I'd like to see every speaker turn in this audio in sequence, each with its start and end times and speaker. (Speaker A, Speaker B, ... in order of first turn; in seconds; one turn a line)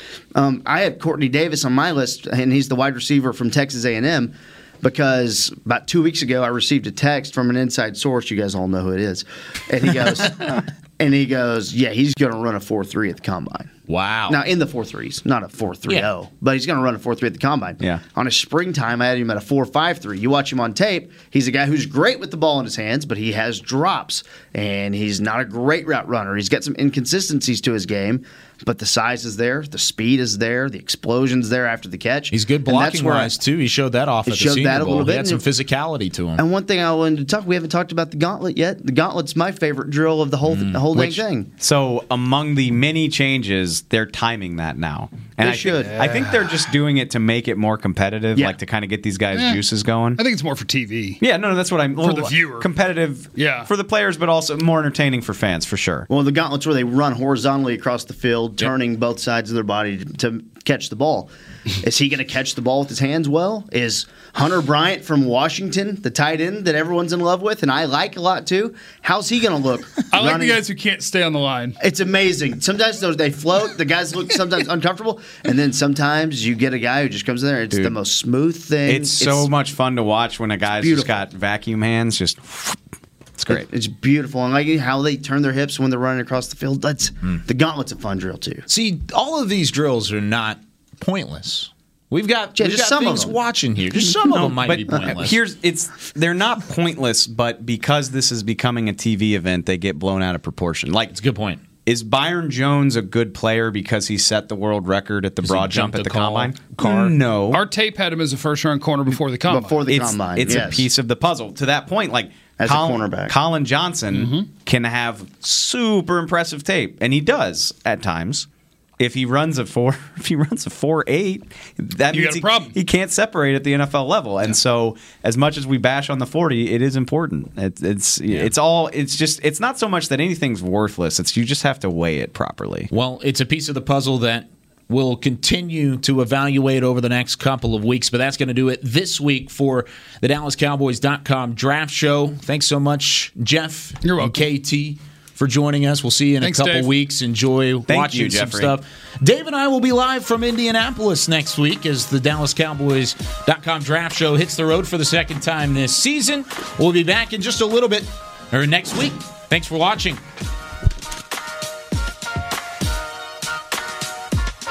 Speaker A: 0.3-13.7
Speaker B: 13.9-14.4
Speaker A: 14.3-33.3
Speaker B: 32.3-36.4
Speaker A: 34.3-35.4
Speaker A: 36.4-41.5
Speaker B: 40.5-41.2
Speaker C: 41.6-50.2
Speaker A: 45.4-46.1
Speaker D: 45.8-46.5
Speaker D: 49.3-49.6
Speaker D: 50.2-51.2
Speaker C: 51.2-56.1
Speaker D: 52.0-52.7
Speaker D: 53.4-53.7
Speaker A: 56.1-70.6
Speaker D: 70.1-71.8
Speaker A: 71.8-79.5
Speaker C: 78.8-82.8
Speaker A: 80.8-81.2
Speaker C: 83.4-83.7
Speaker A: 83.5-88.6
Speaker B: 88.7-95.4
Speaker A: 92.5-93.3
Speaker C: 94.5-101.2
Speaker B: 101.1-101.6
Speaker C: 101.8-107.6
Speaker B: 105.4-107.1
Speaker D: 107.5-109.8
Speaker A: 109.5-110.8
Speaker C: 109.9-118.5
Speaker A: 112.6-113.3
Speaker D: 114.1-114.5
Speaker C: 119.0-132.9
Speaker D: 122.1-122.7
Speaker B: 132.9-160.2
Speaker D: 144.0-144.4
Speaker D: 146.4-146.9
Speaker C: 147.9-148.8